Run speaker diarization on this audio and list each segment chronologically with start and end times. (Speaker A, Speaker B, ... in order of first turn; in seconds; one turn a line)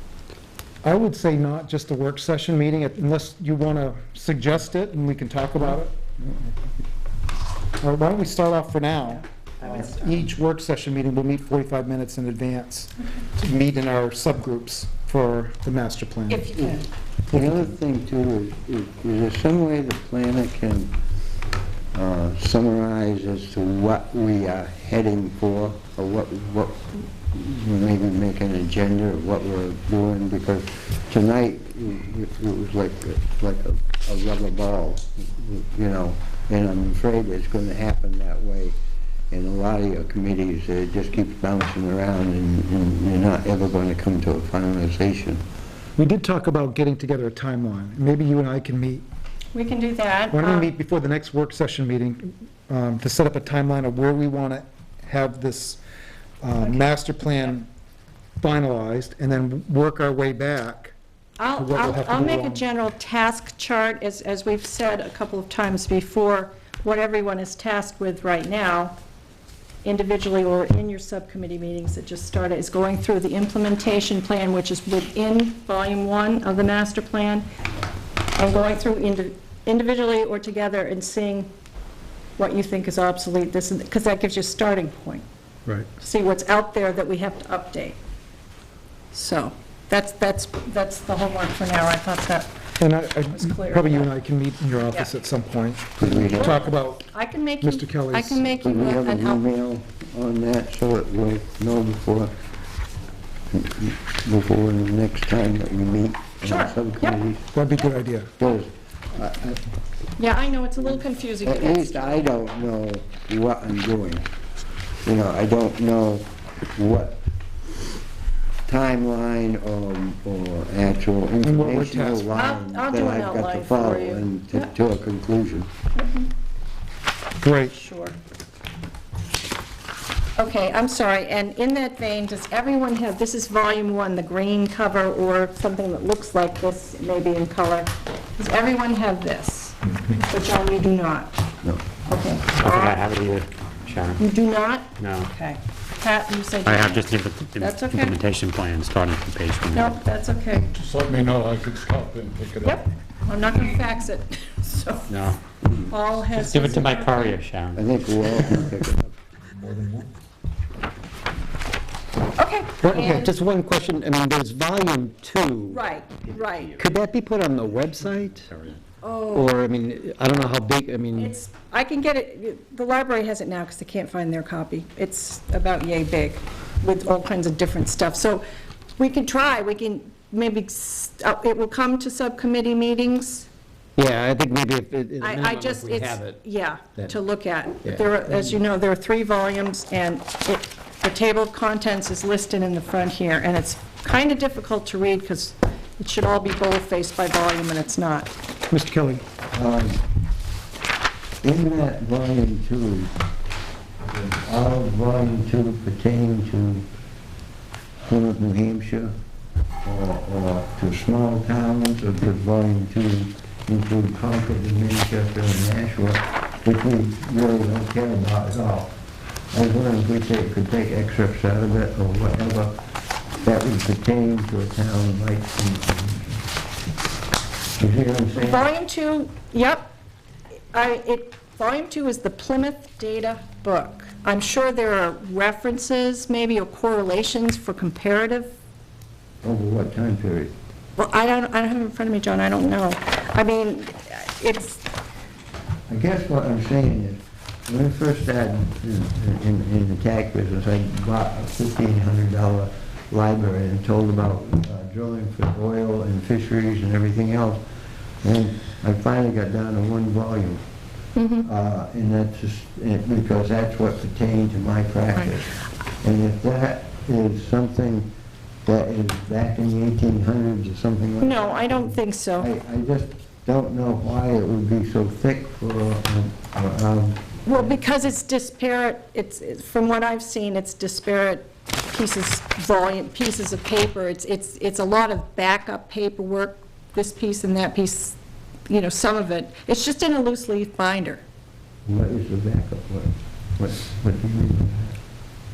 Speaker A: 0.8-6.0
Speaker A: 7.8-16.5
Speaker B: 16.3-16.9
Speaker C: 17.3-20.9
Speaker A: 17.3-17.7
Speaker C: 21.9-38.8
Speaker C: 39.3-45.4
Speaker A: 46.0-49.0
Speaker B: 49.5-50.7
Speaker A: 50.3-55.8
Speaker A: 56.4-57.7
Speaker A: 58.4-60.9
Speaker B: 61.4-69.0
Speaker A: 61.5-62.6
Speaker B: 69.8-77.5
Speaker B: 78.4-81.5
Speaker B: 82.4-85.2
Speaker B: 86.0-88.0
Speaker B: 89.1-92.5
Speaker A: 92.8-97.1
Speaker B: 93.1-94.1
Speaker C: 96.0-96.6
Speaker B: 96.1-99.4
Speaker A: 97.6-98.5
Speaker C: 98.6-102.3
Speaker C: 103.5-107.5
Speaker B: 106.4-107.2
Speaker A: 107.5-108.3
Speaker C: 108.4-109.6
Speaker B: 110.2-112.3
Speaker C: 111.4-114.2
Speaker C: 115.0-117.2
Speaker C: 118.7-125.7
Speaker A: 121.4-122.3
Speaker B: 122.3-124.7
Speaker B: 126.0-126.3
Speaker A: 127.4-127.7
Speaker B: 127.6-128.2
Speaker B: 130.4-141.3
Speaker B: 142.1-143.0
Speaker D: 142.5-144.2
Speaker B: 144.2-148.2
Speaker D: 145.0-145.3
Speaker D: 146.6-150.0
Speaker B: 149.7-150.7
Speaker E: 150.7-152.8
Speaker B: 152.6-155.3
Speaker D: 155.1-155.7
Speaker B: 155.9-157.3
Speaker D: 156.3-157.8
Speaker C: 157.7-159.1
Speaker E: 159.6-160.1
Speaker B: 162.3-163.4
Speaker F: 162.8-165.8
Speaker B: 165.7-166.7
Speaker F: 166.8-168.5
Speaker D: 168.5-168.8
Speaker B: 169.0-169.5
Speaker F: 169.3-171.3
Speaker B: 171.1-178.4
Speaker B: 178.9-183.5
Speaker F: 184.0-186.4
Speaker B: 185.2-198.3
Speaker F: 187.8-188.6
Speaker A: 198.7-199.2
Speaker C: 199.5-200.0
Speaker C: 201.4-203.1
Speaker C: 204.0-206.9
Speaker C: 208.1-209.1
Speaker C: 209.8-218.9
Speaker C: 219.5-222.8
Speaker C: 223.4-226.4
Speaker C: 227.8-228.7
Speaker B: 228.3-229.9
Speaker B: 230.7-238.5
Speaker C: 239.4-240.5
Speaker B: 241.0-244.8
Speaker C: 245.9-257.6
Speaker C: 258.2-260.6
Speaker B: 261.1-261.5
Speaker C: 261.4-268.1
Speaker C: 268.6-277.8
Speaker B: 271.2-272.5
Speaker B: 277.4-288.2
Speaker B: 288.7-291.2
Speaker C: 291.9-295.0